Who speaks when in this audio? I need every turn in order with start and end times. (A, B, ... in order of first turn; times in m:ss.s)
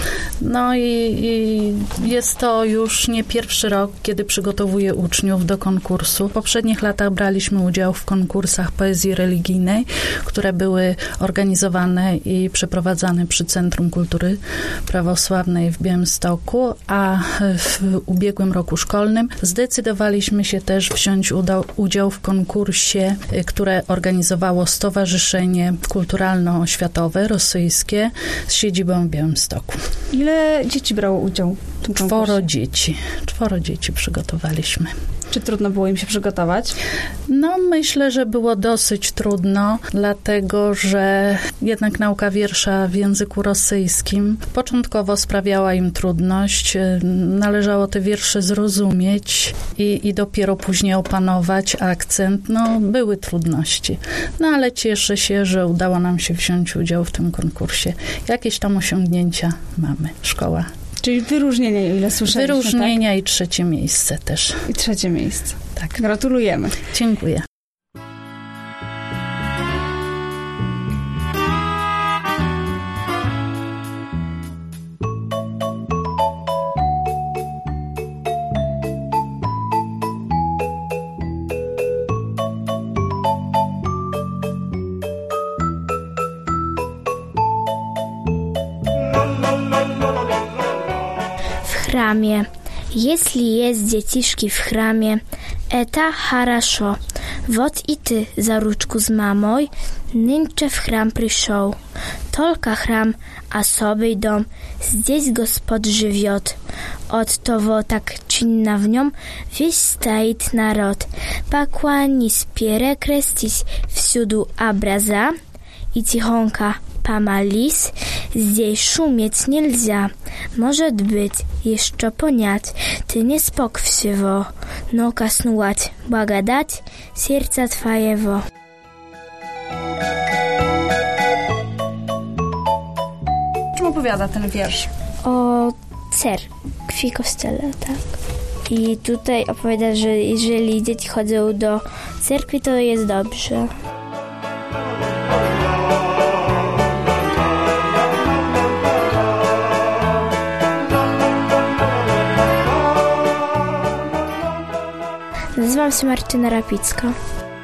0:00.4-0:29.8 A
0:30.1-0:32.4 B
0:32.0-0:34.9 A
0:35.3-0:36.8 B
0:37.3-1:00.7 A
1:01.0-1:03.0 B
1:02.2-1:04.6 A
1:04.7-1:06.8 B
1:05.8-1:06.0 A
1:06.9-1:07.4 A
1:31.6-1:41.8 C
1:42.3-1:46.6 C
1:47.1-1:55.3 C
1:55.9-2:08.4 C
2:13.8-2:14.9 B
2:15.2-2:18.0 C
2:18.7-2:23.7 C
2:35.6-2:37.2 C